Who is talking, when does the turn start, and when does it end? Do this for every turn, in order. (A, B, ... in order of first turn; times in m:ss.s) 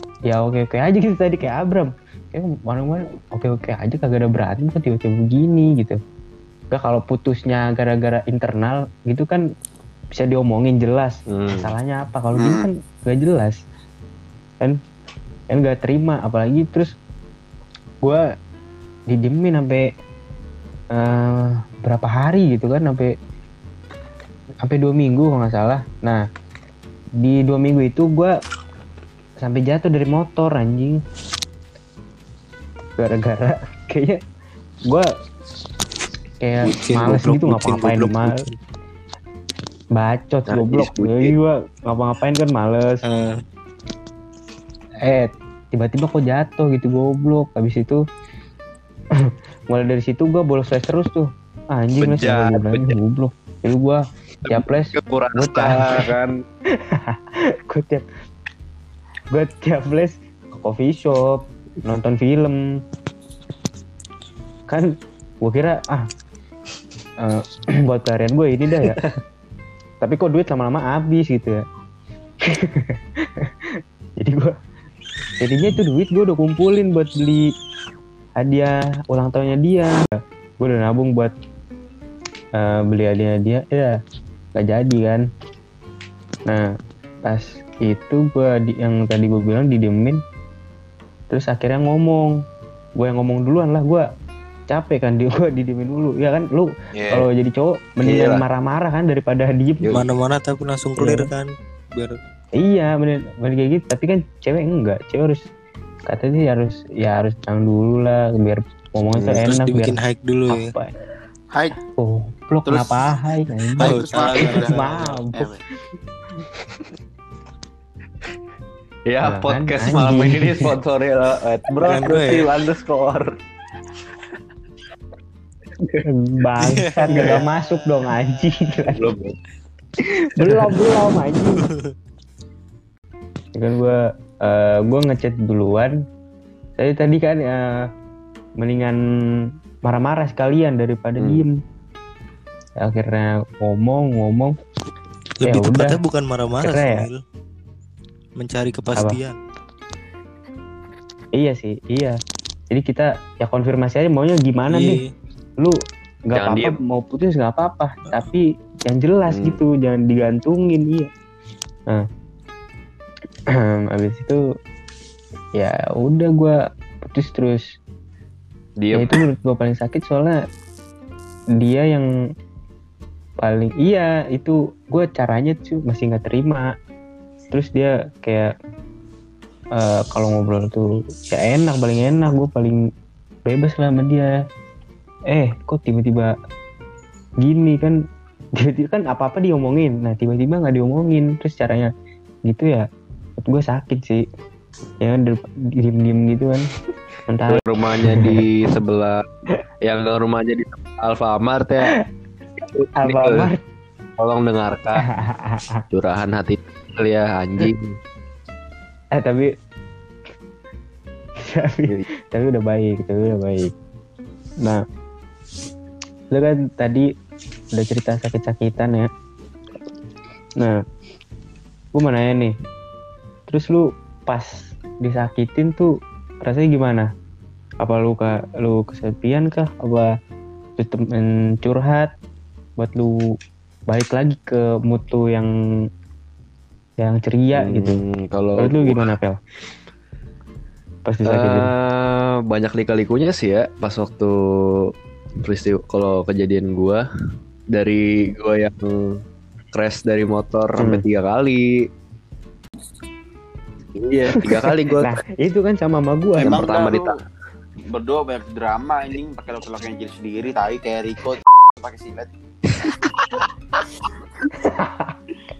0:00.3-0:06.0 A
0:06.7-0:09.4 A
0:10.1-0:13.6 A
0:11.3-0:11.7 B
0:12.3-0:12.7 C
0:15.5-0:16.9 A
0:19.1-0:19.8 A
0:20.9-0:23.1 A
0:24.6-0:26.2 A
0:27.2-0:28.3 A
0:29.4-0:31.0 A
0:33.0-0:34.2 A
0:36.4-0:38.4 A
0:36.6-0:38.6 D
0:40.0-0:43.0 A
0:40.5-0:41.4 B
0:43.0-0:43.4 D
0:45.0-0:48.0 A
0:49.3-0:56.1 A
0:52.0-0:53.0 B
0:54.4-0:56.3 B
0:56.7-0:58.1 A
0:59.3-1:02.6 A
1:05.4-1:06.1 A
1:07.2-1:09.0 A
1:08.8-1:09.2 B
1:10.0-1:11.6 A
1:12.5-1:14.5 A
1:15.4-1:17.5 A
1:18.4-1:21.3 A
1:22.6-1:23.9 A
1:24.5-1:25.2 A
1:27.2-1:30.2 A
1:31.3-1:32.3 A
1:33.0-1:34.0 A
1:34.7-1:40.0 A
1:37.0-1:37.3 B
1:38.0-1:38.4 B
1:39.9-1:42.2 D
1:41.0-1:41.3 A
1:42.6-1:45.4 A
1:46.1-1:50.9 A
1:49.1-1:49.4 B
1:49.3-1:50.7 D
1:51.5-1:51.8 C
1:52.0-1:55.5 A
1:52.7-1:53.0 C
1:53.8-1:55.2 D
1:53.8-1:55.6 C
1:59.1-2:03.4 B
1:59.2-2:00.7 A
2:01.8-2:02.5 D
2:05.8-2:06.0 B
2:06.0-2:09.1 A
2:06.6-2:07.5 D
2:07.1-2:07.4 B
2:08.8-2:09.4 B
2:10.2-2:11.6 A
2:11.6-2:11.9 D
2:13.5-2:16.0 A
2:16.8-2:17.8 A
2:18.6-2:19.0 A
2:19.8-2:21.5 A
2:21.2-2:21.4 B
2:22.8-2:24.5 A
2:25.4-2:27.2 D
2:25.4-2:26.0 A
2:26.6-2:27.0 A
2:28.4-2:29.4 D
2:31.4-2:32.2 A
2:32.7-2:35.0 A
2:34.7-2:35.1 D
2:36.3-2:41.1 A
2:36.3-2:36.8 B
2:39.3-2:39.6 B
2:43.6-2:44.4 A
2:45.6-2:47.6 A
2:48.8-2:49.2 B
2:48.9-2:50.4 A
2:51.6-2:52.1 A
2:53.4-2:56.7 A
2:57.5-2:58.5 A
2:59.8-3:02.8 A
3:03.4-3:04.3 A
3:05.3-3:06.3 A
3:07.4-3:08.0 A
3:08.6-3:11.9 A
3:12.5-3:12.8 A
3:13.4-3:14.2 A
3:15.0-3:16.7 A
3:17.3-3:18.4 A
3:17.5-3:19.2 B
3:19.8-3:21.9 B
3:22.7-3:23.5 B
3:23.0-3:23.6 A
3:24.2-3:25.1 B
3:25.1-3:25.8 A
3:25.9-3:28.0 B
3:29.1-3:29.5 A
3:31.4-3:33.7 A
3:36.3-3:37.0 A
3:37.7-3:39.1 A
3:41.9-3:42.5 A
3:43.5-3:45.9 A
3:46.4-3:47.0 A
3:47.8-3:50.1 A
3:50.8-3:52.1 A
3:52.8-3:53.2 A
3:53.9-3:55.5 A
3:57.0-3:58.0 A
3:57.6-3:59.1 B
3:58.6-3:59.4 A
4:01.0-4:01.7 A
4:01.2-4:04.3 B
4:05.4-4:07.0 B
4:07.7-4:09.2 B
4:09.7-4:11.7 B
4:10.8-4:11.0 A
4:13.9-4:15.2 B
4:14.4-4:16.6 A
4:16.4-4:17.1 C
4:16.4-4:17.1 B
4:17.9-4:22.3 C
4:22.8-4:23.5 B
4:24.6-4:25.2 A